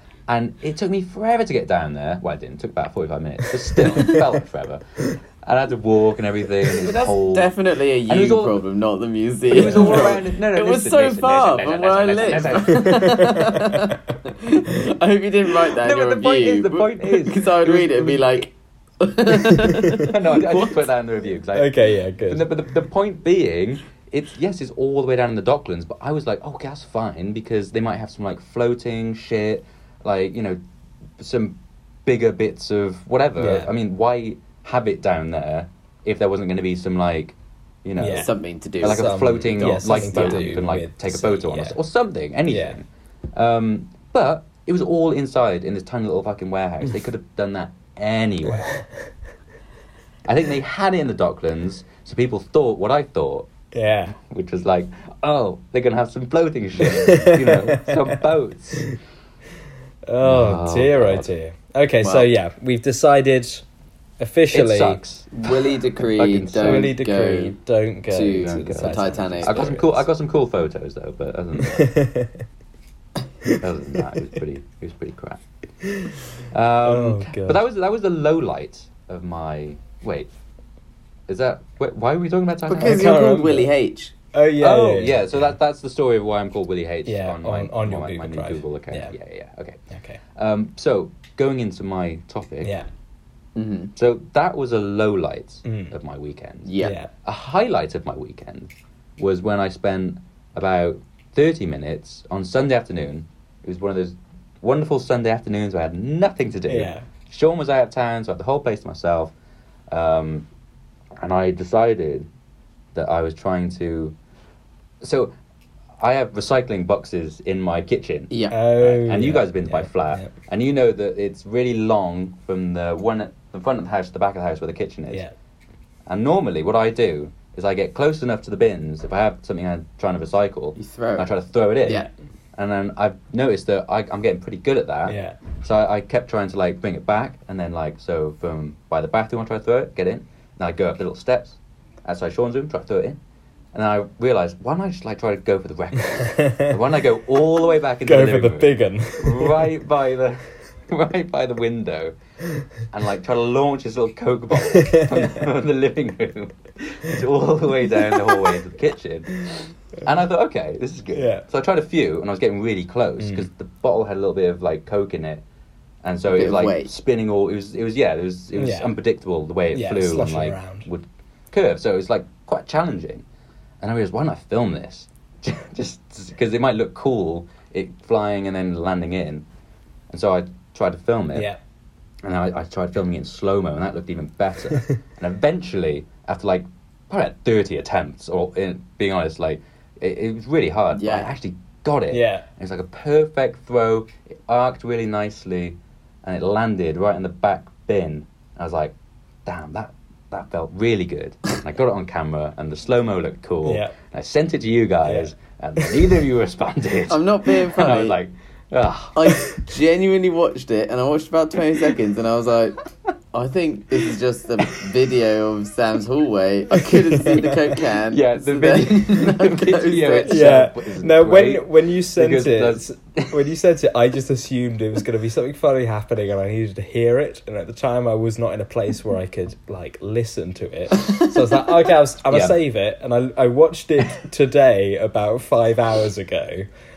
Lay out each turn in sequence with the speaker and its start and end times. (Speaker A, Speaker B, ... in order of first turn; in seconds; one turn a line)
Speaker A: 0.3-4.8
Speaker A: 5.4-7.5
Speaker B: 6.7-20.8
Speaker A: 8.1-8.6
Speaker A: 9.5-13.0
Speaker C: 9.6-10.1
Speaker C: 12.7-14.0
Speaker A: 15.7-18.4
Speaker A: 20.0-21.8
Speaker C: 21.5-22.4
Speaker A: 22.3-30.6
Speaker A: 31.2-48.7
Speaker C: 33.4-33.7
Speaker C: 38.0-41.8
Speaker B: 38.1-40.5
Speaker C: 42.5-42.8
Speaker C: 48.5-48.8
Speaker A: 50.2-53.5
Speaker C: 53.7-54.1
Speaker A: 54.1-58.9
Speaker C: 56.8-58.2
Speaker C: 60.1-63.6
Speaker A: 60.2-61.3
Speaker B: 62.0-62.3
Speaker C: 64.2-65.0
Speaker A: 64.5-66.9
Speaker B: 65.3-67.6
Speaker C: 66.6-70.0
Speaker B: 68.1-69.8
Speaker A: 68.3-71.9
Speaker C: 71.6-72.4
Speaker A: 73.6-75.4
Speaker C: 75.8-76.2
Speaker A: 76.5-80.3
Speaker C: 76.8-77.6
Speaker A: 81.3-83.1
Speaker B: 82.7-84.1
Speaker C: 82.8-83.7
Speaker C: 84.3-85.5
Speaker A: 84.6-89.8
Speaker C: 87.0-89.1
Speaker C: 89.9-90.2
Speaker A: 90.3-92.7
Speaker C: 92.6-92.9
Speaker B: 93.5-93.9
Speaker A: 93.9-109.3
Speaker C: 95.6-95.9
Speaker B: 96.7-97.0
Speaker C: 96.8-97.1
Speaker C: 106.7-107.0
Speaker A: 109.9-110.5
Speaker A: 111.2-112.3
Speaker A: 112.9-114.2
Speaker A: 115.0-115.3
Speaker A: 116.0-125.2
Speaker B: 118.3-118.6
Speaker C: 118.5-120.3
Speaker A: 126.1-143.2
Speaker B: 130.8-131.3
Speaker B: 131.8-132.1
Speaker C: 135.1-135.4
Speaker A: 143.7-152.1
Speaker C: 146.2-146.7
Speaker C: 148.1-149.7
Speaker A: 152.9-165.4
Speaker C: 154.7-155.4
Speaker C: 158.1-158.4
Speaker C: 161.1-161.4
Speaker C: 163.2-163.5
Speaker A: 166.0-173.2
Speaker B: 166.3-166.9
Speaker C: 168.5-168.9
Speaker C: 169.7-170.9
Speaker A: 173.8-179.4
Speaker A: 180.1-181.5
Speaker C: 181.3-181.6
Speaker A: 182.2-198.9
Speaker B: 190.9-191.3
Speaker C: 192.1-192.4
Speaker A: 199.4-209.5
Speaker C: 203.6-203.9
Speaker C: 205.0-206.0
Speaker B: 207.1-208.2
Speaker B: 209.2-212.8
Speaker B: 213.3-220.4
Speaker C: 217.1-217.5
Speaker A: 218.1-223.4
Speaker C: 220.2-236.7
Speaker A: 232.3-232.6